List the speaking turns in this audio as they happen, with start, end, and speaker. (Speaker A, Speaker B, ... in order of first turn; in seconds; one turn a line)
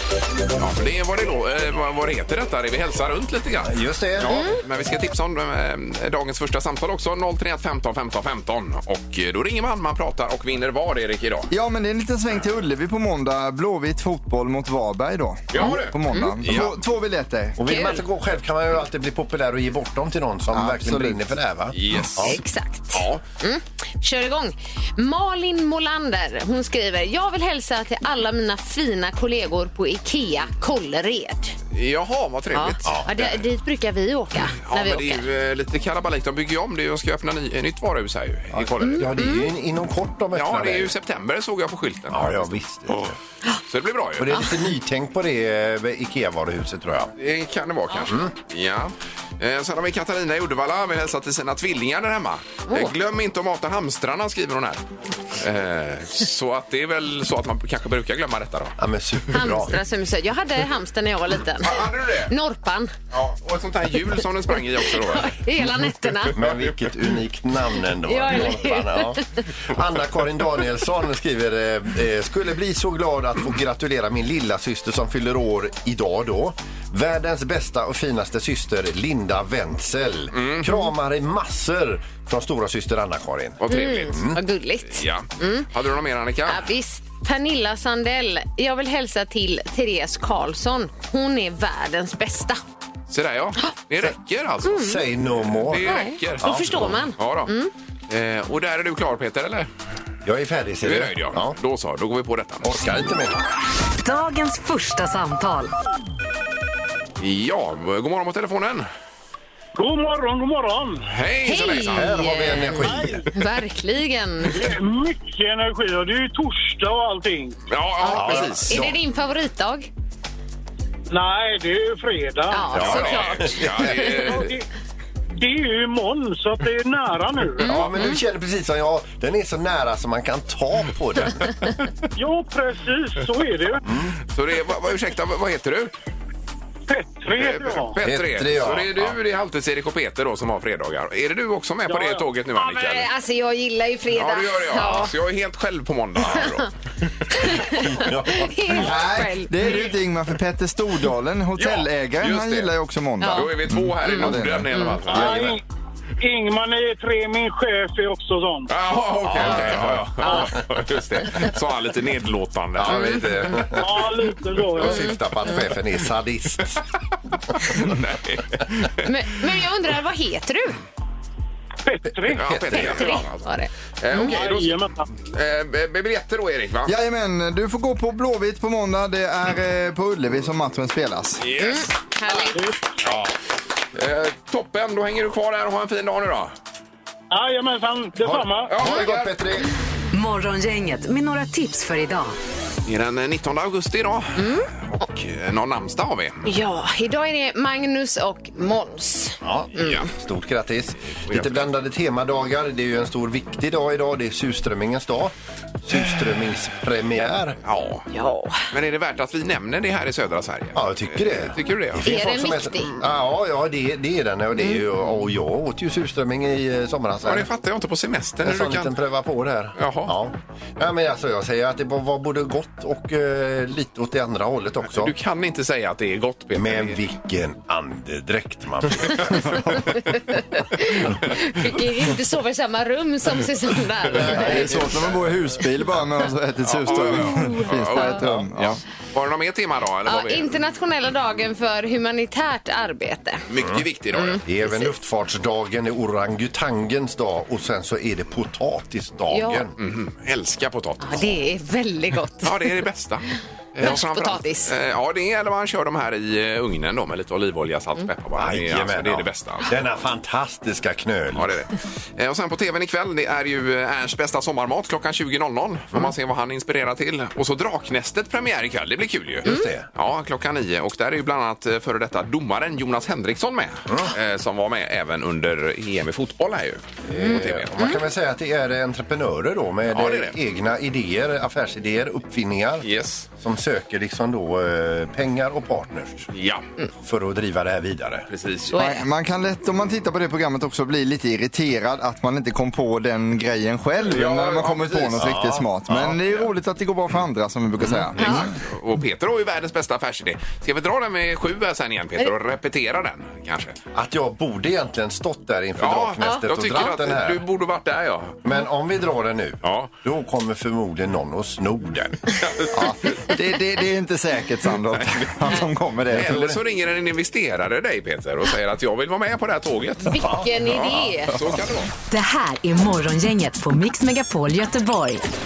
Speaker A: 0.6-11.5
Speaker B: 3.6-4.5
Speaker C: 4.2-4.6
Speaker D: 11.5-17.7
Speaker A: 15.5-16.8
Speaker C: 16.1-16.4
Speaker B: 17.6-22.4
Speaker C: 17.7-18.0
Speaker D: 20.5-21.2
Speaker A: 21.7-22.3
Speaker C: 22.2-31.6
Speaker A: 22.9-23.2
Speaker A: 31.7-33.3
Speaker C: 32.5-35.2
Speaker A: 34.6-39.1
Speaker B: 38.5-40.9
Speaker C: 38.8-39.5
Speaker A: 40.3-43.1
Speaker B: 42.1-43.2
Speaker A: 43.7-44.5
Speaker B: 44.2-47.1
Speaker A: 47.2-58.8
Speaker C: 52.7-52.9
Speaker B: 58.8-59.8
Speaker C: 59.3-62.9
Speaker A: 61.6-62.3
Speaker A: 63.1-65.4
Speaker C: 64.9-66.4
Speaker B: 66.3-84.4
Speaker A: 66.4-66.7
Speaker C: 68.0-69.4
Speaker A: 80.3-80.7
Speaker A: 83.6-84.2
Speaker C: 83.7-85.7
Speaker A: 84.8-86.7
Speaker C: 86.5-92.6
Speaker A: 93.1-97.5
Speaker C: 94.6-95.0
Speaker B: 94.7-97.0
Speaker C: 95.8-97.7
Speaker A: 98.1-99.7
Speaker B: 100.2-101.6
Speaker A: 100.8-102.8
Speaker B: 102.6-103.4
Speaker E: 104.0-105.7
Speaker A: 107.2-108.9
Speaker F: 109.8-111.1
Speaker A: 111.1-112.3
Speaker C: 111.5-114.6
Speaker B: 111.9-113.2
Speaker F: 114.5-117.6
Speaker A: 117.7-118.9
Speaker C: 118.0-119.9
Speaker B: 118.1-119.0
Speaker F: 121.1-123.2
Speaker C: 122.5-124.4
Speaker B: 122.7-123.5
Speaker A: 122.7-124.5
Speaker F: 123.9-124.7
Speaker F: 125.4-127.8
Speaker C: 127.6-128.2
Speaker B: 127.7-131.5
Speaker F: 132.2-133.8
Speaker B: 133.8-134.2
Speaker A: 134.3-135.9
Speaker F: 136.9-138.0
Speaker A: 137.3-143.1
Speaker B: 138.0-139.2
Speaker F: 141.9-142.8
Speaker C: 142.8-145.1
Speaker A: 144.1-146.7
Speaker C: 147.3-149.9
Speaker B: 147.4-148.6
Speaker D: 148.8-155.2
Speaker A: 151.6-152.7
Speaker C: 153.2-153.5
Speaker A: 153.3-155.6
Speaker C: 154.1-155.0
Speaker F: 155.1-155.6
Speaker F: 156.2-158.7
Speaker A: 158.7-163.2
Speaker B: 159.2-160.6
Speaker C: 160.2-160.5
Speaker B: 162.8-164.1
Speaker C: 162.9-163.7
Speaker F: 163.8-165.1
Speaker B: 164.7-166.8
Speaker C: 164.8-165.6
Speaker A: 167.7-169.1
Speaker C: 169.0-170.8
Speaker F: 171.9-172.6
Speaker B: 172.3-173.2
Speaker A: 172.3-176.9
Speaker C: 172.7-174.3
Speaker F: 174.1-175.1
Speaker D: 176.8-181.4
Speaker A: 181.4-181.8
Speaker C: 181.6-182.6
Speaker F: 182.3-182.8
Speaker A: 183.9-186.5
Speaker F: 187.3-188.7
Speaker B: 188.2-189.7
Speaker A: 188.7-189.3
Speaker E: 190.1-192.3
Speaker A: 192.8-196.4
Speaker C: 194.4-194.7
Speaker C: 196.4-200.1
Speaker B: 199.4-205.3
Speaker A: 199.8-200.1
Speaker A: 201.2-201.7
Speaker B: 205.8-207.6
Speaker A: 207.6-208.1
Speaker C: 208.1-208.7
Speaker A: 208.7-212.1
Speaker B: 210.8-217.5
Speaker C: 212.0-213.0
Speaker A: 217.2-218.9
Speaker B: 218.4-225.1
Speaker A: 219.8-220.2
Speaker A: 224.9-227.0
Speaker B: 226.6-230.0
Speaker C: 229.3-235.0
Speaker B: 234.1-235.4
Speaker D: 234.2-238.8
Speaker A: 236.7-240.6
Speaker C: 237.2-238.2
Speaker C: 240.1-243.4
Speaker A: 243.5-244.5
Speaker C: 244.2-244.9
Speaker B: 244.5-249.7
Speaker C: 249.3-249.6
Speaker A: 249.8-251.4
Speaker C: 251.0-252.8
Speaker A: 252.4-259.7
Speaker C: 253.8-254.7
Speaker B: 258.4-261.5
Speaker A: 261.3-277.7
Speaker B: 269.4-269.9
Speaker B: 277.1-282.9
Speaker C: 277.2-277.9
Speaker A: 279.9-280.4
Speaker A: 282.8-283.3
Speaker B: 283.4-286.3
Speaker A: 286.3-286.6
Speaker B: 287.0-288.3
Speaker A: 288.3-288.8
Speaker C: 288.7-289.0
Speaker D: 288.7-298.6
Speaker A: 294.0-295.3
Speaker B: 295.2-296.2
Speaker C: 298.2-298.5
Speaker A: 298.2-303.8
Speaker B: 303.9-307.4
Speaker A: 305.8-308.4
Speaker C: 306.2-306.9
Speaker B: 308.4-312.4
Speaker A: 309.6-309.9
Speaker A: 312.4-313.3
Speaker D: 312.7-316.4
Speaker A: 315.0-315.5
Speaker A: 316.1-321.9
Speaker B: 316.1-316.6
Speaker C: 320.1-321.3
Speaker B: 320.1-320.5
Speaker E: 322.1-325.3